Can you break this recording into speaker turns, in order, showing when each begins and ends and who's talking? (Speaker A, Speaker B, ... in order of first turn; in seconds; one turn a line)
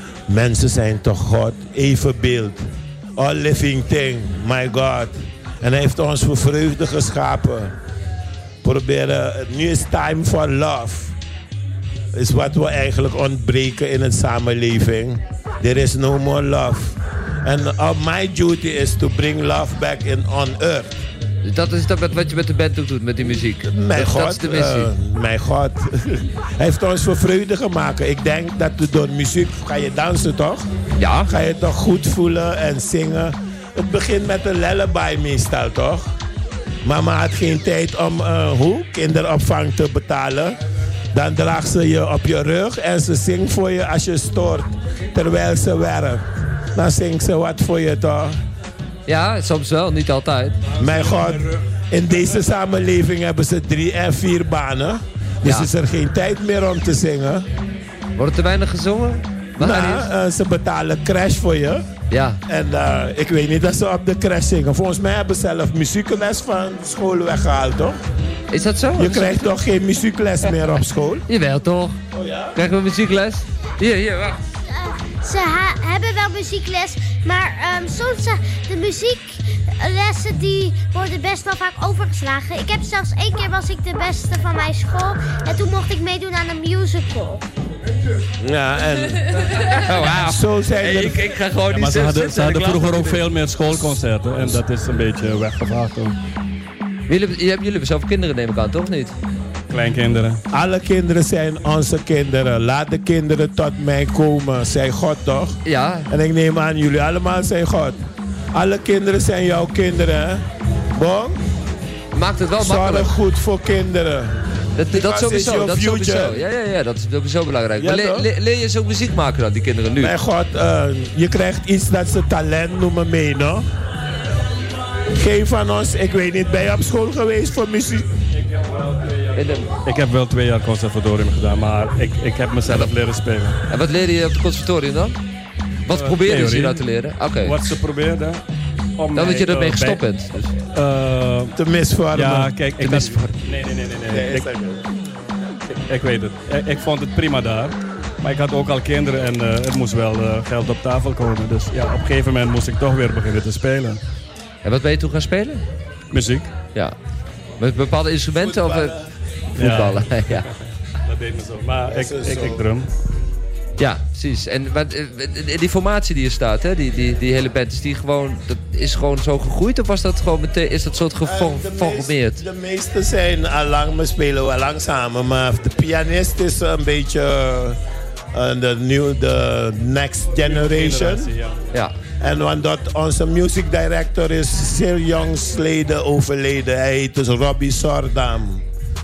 Speaker A: 0.3-7.7
Speaker A: 8.6-11.2
Speaker A: 12.1-21.0
Speaker B: 21.4-24.9
Speaker A: 23.7-30.7
Speaker B: 31.0-31.3
Speaker A: 31.3-36.1
Speaker A: 36.8-40.6
Speaker A: 41.1-46.2
Speaker A: 46.8-48.4
Speaker B: 49.1-50.6
Speaker A: 50.8-57.5
Speaker B: 55.4-55.7
Speaker B: 58.2-60.1
Speaker A: 59.6-61.9
Speaker B: 62.1-62.4
Speaker A: 62.5-68.0
Speaker B: 68.5-69.5
Speaker A: 69.0-71.2
Speaker B: 71.3-72.0
Speaker A: 72.1-72.6
Speaker B: 72.5-74.4
Speaker C: 74.7-87.4
Speaker A: 88.4-89.3
Speaker B: 89.5-93.2
Speaker A: 90.1-91.2
Speaker D: 91.7-96.2
Speaker B: 97.1-99.2
Speaker D: 99.7-100.4
Speaker A: 100.5-105.6
Speaker B: 105.6-106.1
Speaker A: 106.1-108.0
Speaker A: 108.5-111.4
Speaker B: 112.1-113.1
Speaker A: 112.6-116.4
Speaker B: 114.8-120.2
Speaker A: 117.8-118.3
Speaker A: 120.0-123.7
Speaker A: 125.1-128.1
Speaker D: 128.3-133.6
Speaker B: 129.3-129.7
Speaker B: 133.7-135.2
Speaker B: 135.9-137.6
Speaker D: 135.9-136.9
Speaker D: 137.4-138.4
Speaker D: 139.0-140.0
Speaker B: 139.2-140.5
Speaker D: 140.7-141.6
Speaker A: 141.6-142.6
Speaker D: 142.1-144.5
Speaker B: 142.8-143.2
Speaker A: 144.1-144.8
Speaker D: 145.9-154.0
Speaker B: 154.6-155.7
Speaker D: 156.1-156.5
Speaker B: 157.6-158.9
Speaker A: 158.3-159.1
Speaker B: 159.6-160.5
Speaker D: 159.6-160.4
Speaker D: 161.1-162.9
Speaker A: 161.9-162.7
Speaker B: 163.8-172.4
Speaker A: 171.2-177.8
Speaker A: 178.3-181.3
Speaker D: 180.4-181.6
Speaker A: 182.2-188.6